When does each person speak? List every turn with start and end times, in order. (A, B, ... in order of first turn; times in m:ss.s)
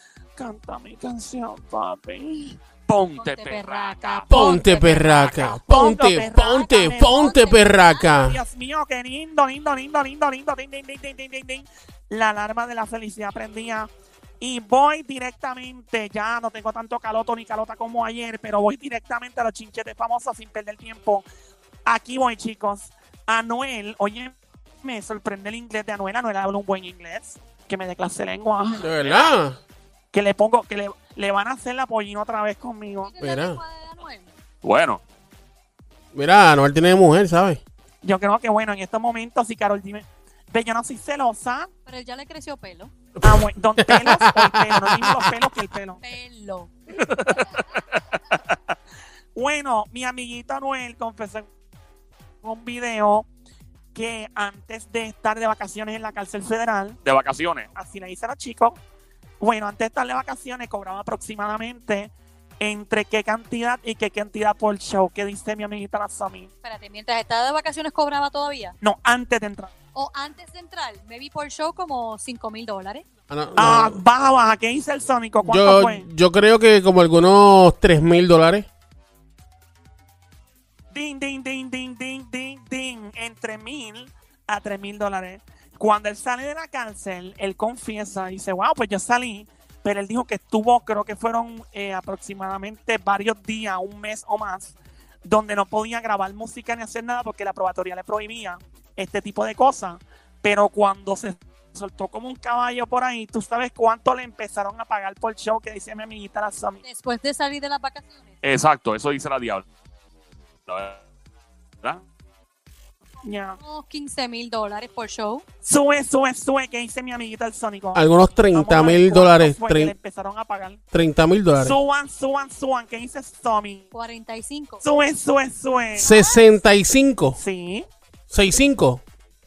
0:00.4-0:02.6 A
0:02.9-0:04.6 B
0:03.2-0:05.5 C
0:04.3-0:08.4 D
0:04.5-0:13.9 A
0:07.3-0:07.8 C
0:14.4-0:21.2 A
0:21.8-0:28.9 A
0:28.8-0:29.6 D
0:29.0-0:29.3 B
0:30.1-0:33.1 A
0:33.0-0:34.3 C
0:33.2-0:33.6 D
0:34.6-0:35.0 B
0:36.1-0:37.6 D
0:38.0-0:41.7 A
0:41.8-0:42.9 C
0:43.2-0:45.4 D
0:43.2-0:46.0 A
0:46.0-0:46.7 C
0:47.0-0:48.4 B
0:49.3-0:51.5 A
0:52.4-0:53.3 A
0:53.9-0:57.0 A
0:57.0-0:57.7 B
0:57.7-0:58.8 A
0:59.4-1:06.5 A
1:06.6-1:08.8 C
1:08.8-1:09.7 A
1:09.9-1:13.0 C
1:13.3-1:14.0 D
1:13.6-1:16.0 A
1:15.4-1:18.7 D
1:20.9-1:46.8 A
1:46.8-1:48.3 C
1:48.4-1:49.6 B
1:50.7-1:51.0 B
1:53.2-1:53.6 A
1:53.6-1:55.4 C
1:55.6-2:00.8 A
1:57.9-1:59.9 D
2:00.9-2:01.8 D
2:01.6-2:03.9 A
2:03.9-2:04.8 C
2:04.8-2:06.1 A
2:06.0-2:06.5 C
2:06.0-2:07.4 D
2:07.4-2:07.9 A
2:08.3-2:09.0 D